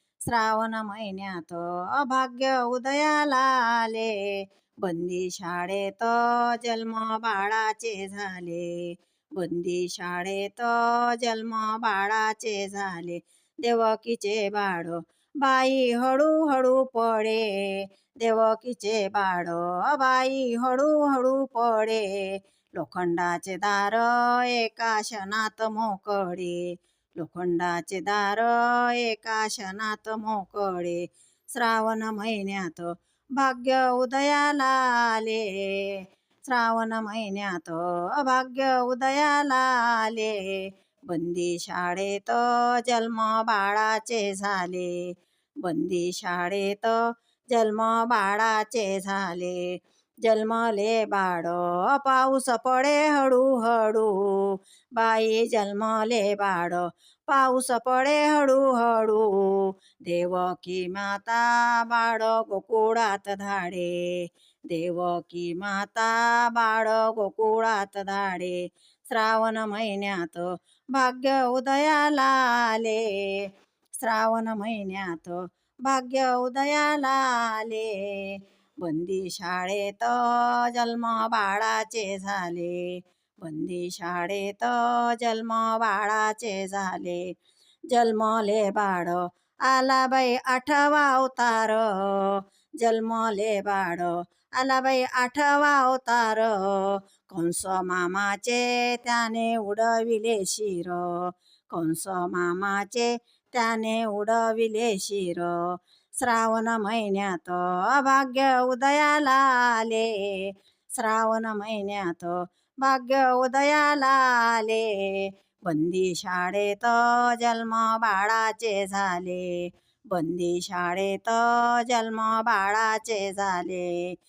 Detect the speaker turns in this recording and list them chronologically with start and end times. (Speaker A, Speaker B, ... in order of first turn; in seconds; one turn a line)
Speaker A: 0.3-4.1
Speaker A: 4.8-26.6
Speaker A: 27.2-31.0
Speaker A: 31.5-40.4
Speaker A: 41.1-45.1
Speaker A: 45.6-47.0
Speaker A: 47.5-49.6
Speaker A: 50.2-73.4
Speaker A: 74.0-82.9
Speaker A: 83.4-87.2
Speaker A: 87.9-105.5
Speaker A: 106.2-124.0